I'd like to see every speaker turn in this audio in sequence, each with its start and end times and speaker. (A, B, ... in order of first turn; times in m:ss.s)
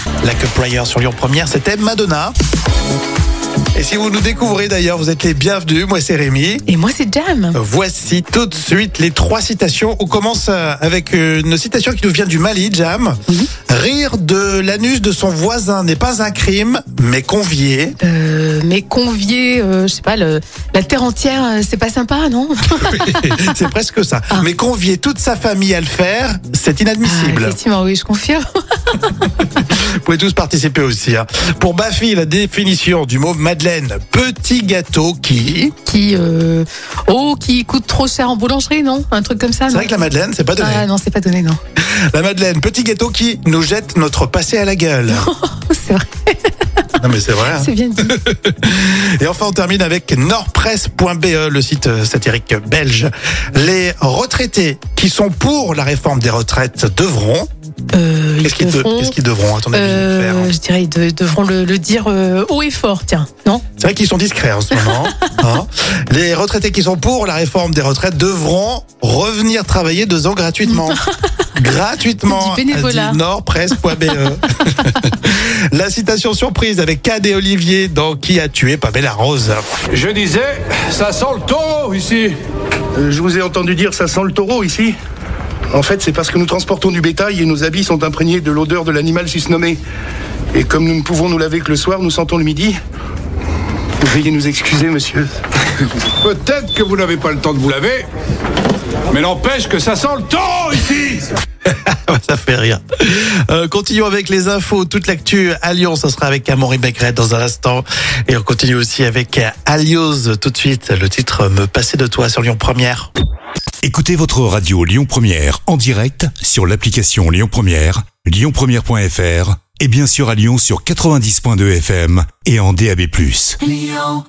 0:00.2-0:02.4 A
0:03.8-0:06.6 A
0:06.7-0:07.6 B
0:07.6-0:18.0 A
0:18.0-0:23.5 B
0:22.7-0:27.6 A
0:27.0-0:29.2 B
0:29.4-0:35.7 A
0:35.9-0:39.9 B
0:39.7-0:40.9 A
0:40.6-0:41.6 B
0:41.8-0:45.3 A
0:45.1-0:46.5 B
0:47.0-0:57.5 A
0:47.5-0:48.2 B
0:57.9-0:59.2 B
0:58.4-1:00.5 A
0:59.7-1:03.6 B
1:03.8-1:11.0 A
1:04.7-1:05.3 B
1:10.8-1:11.0 B
1:11.6-1:19.6 A
1:12.3-1:13.2 B
1:19.9-1:22.4 C
1:23.0-1:25.0 D
1:25.7-1:29.8 D
1:30.5-1:32.8 D
1:34.0-1:35.3 D
1:36.1-1:38.1 C
1:39.1-1:41.3 C
1:41.7-1:53.1 A
1:53.8-2:03.7 E